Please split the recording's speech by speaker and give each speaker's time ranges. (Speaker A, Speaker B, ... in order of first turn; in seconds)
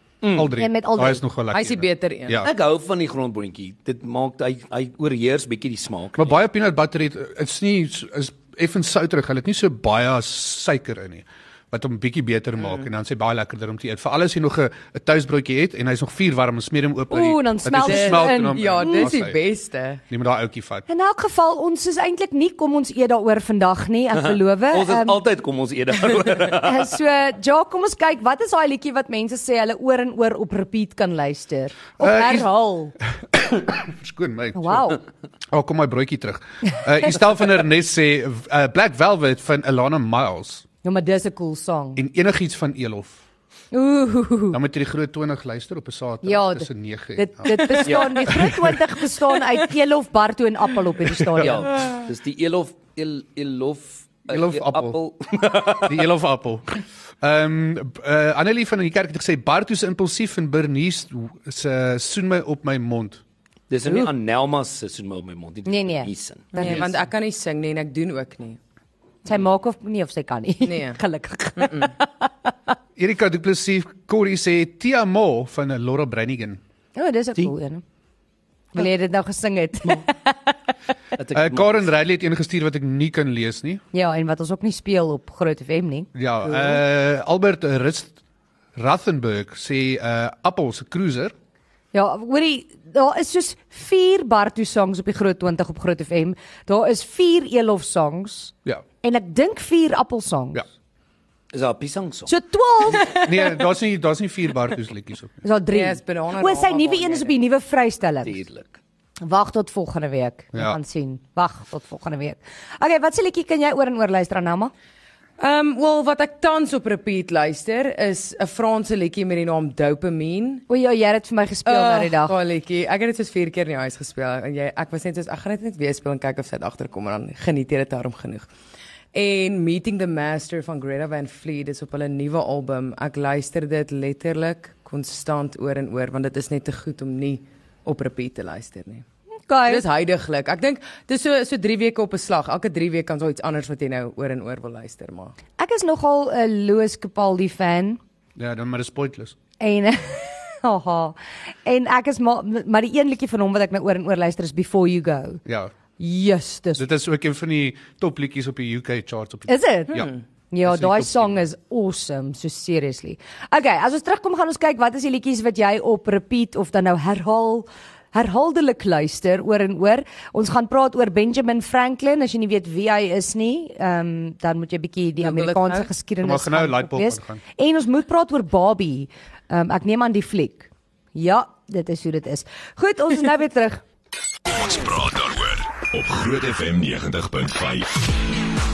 Speaker A: 0.2-0.5, 2.4-6.3, 24.1-26.9, 47.8-48.3, 51.4-56.0, 63.7-66.8, 81.2-81.9, 101.5-102.3, 108.2-108.8
Speaker B: 0.3-2.5, 6.2-19.4, 20.1-20.9, 32.0-32.5, 33.3-35.0, 35.5-40.6, 42.0-43.2, 44.5-48.8, 51.0-51.6, 54.3-55.0, 55.8-63.2, 66.6-66.8, 73.0-76.6, 81.3-83.8, 86.1-88.2, 88.8-91.3, 103.2-105.4, 148.3-149.3, 155.4-155.7, 156.8-160.1, 160.6-161.4, 176.2-177.4
Speaker C: 0.6-1.2, 17.1-19.1, 20.9-25.2, 26.4-32.9, 34.5-35.0, 40.8-42.0, 43.7-44.6, 46.2-51.8, 65.7-66.8, 69.2-72.5, 77.0-77.8, 78.7-80.5, 83.9-86.6, 91.9-100.6, 102.3-103.1, 105.4-108.4, 109.2-114.7, 120.7-122.3, 139.5-139.8, 145.6-148.0, 149.6-155.4, 156.0-156.9, 159.5-183.8
Speaker D: 1.5-2.4, 17.8-20.0, 66.5-68.6, 70.7-71.0, 71.6-71.9, 102.9-103.6, 105.7-107.3, 115.4-120.6, 121.7-128.5, 129.1-139.0, 139.7-145.3, 159.9-160.2, 175.2-175.9
Speaker E: 184.5-188.3